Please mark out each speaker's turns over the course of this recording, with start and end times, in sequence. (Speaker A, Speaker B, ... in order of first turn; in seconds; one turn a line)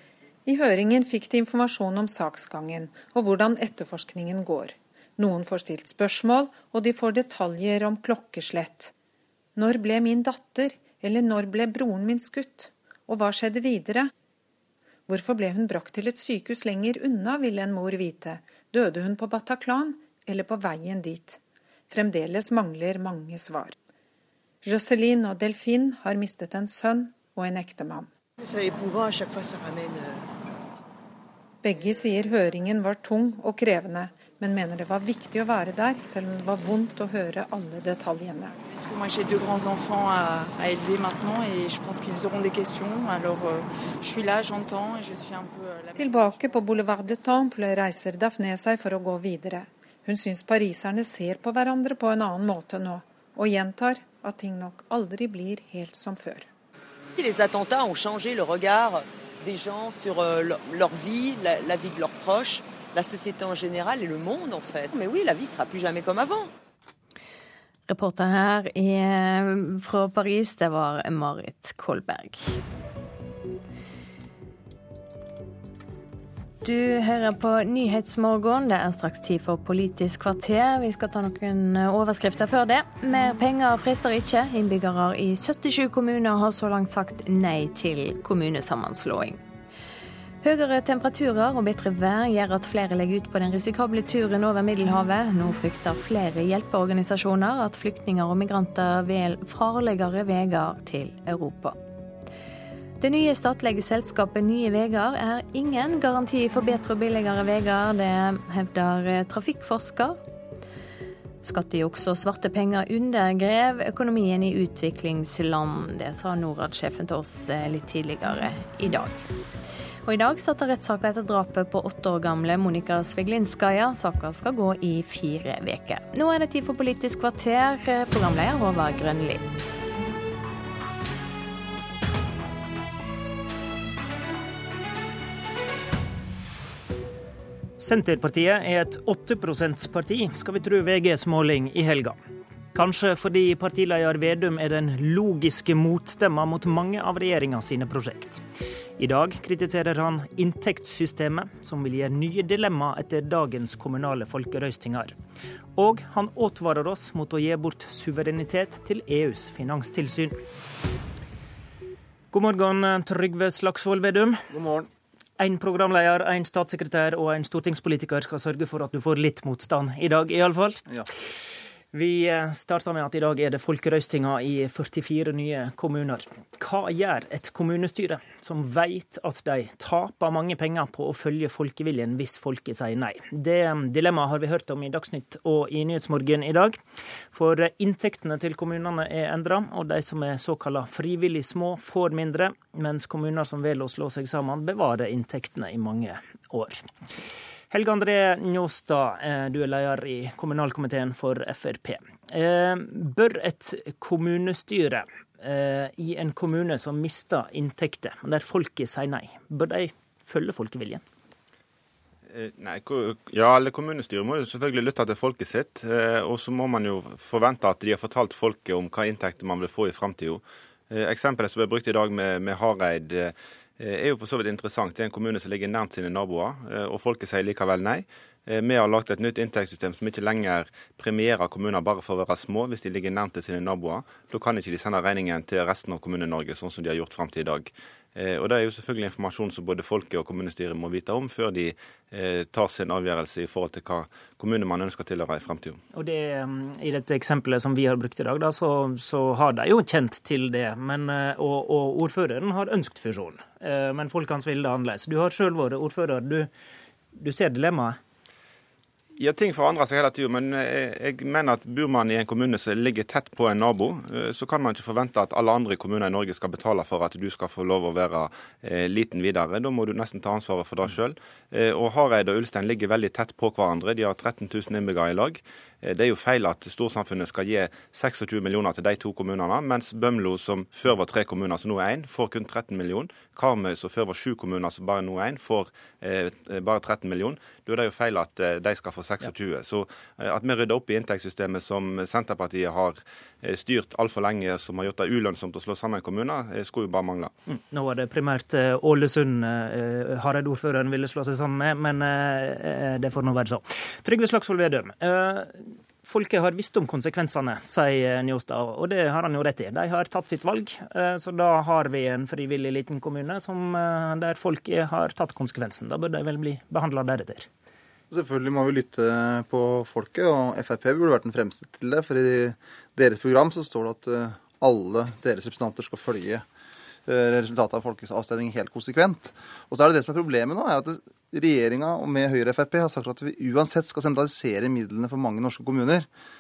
Speaker A: 0.5-8.9
Speaker A: 9.6-14.1
Speaker A: 15.1-23.7
Speaker A: 24.6-28.1
Speaker B: 29.1-29.8
Speaker A: 31.6-38.6
Speaker C: 39.0-45.6
Speaker A: 46.0-56.5
Speaker B: 57.2-66.5
Speaker D: 67.9-72.6
Speaker D: 76.6-89.4
Speaker D: 90.4-101.8
Speaker D: 103.0-110.2
Speaker D: 111.4-119.2
Speaker D: 120.0-129.4
Speaker C: 137.8-142.2
Speaker C: 142.7-148.4
Speaker C: 149.0-155.1
Speaker C: 155.8-160.4
Speaker C: 162.3-164.4
Speaker E: 164.5-164.9
Speaker C: 165.4-170.8
Speaker C: 171.9-186.8
Speaker C: 187.3-196.8
Speaker C: 197.7-211.0
Speaker F: 212.3-245.8
Speaker C: 245.9-256.5
Speaker C: 257.1-258.0
Speaker F: 259.2-297.3
Speaker C: 297.5-317.5
Speaker E: 318.1-326.4
Speaker E: 327.1-336.1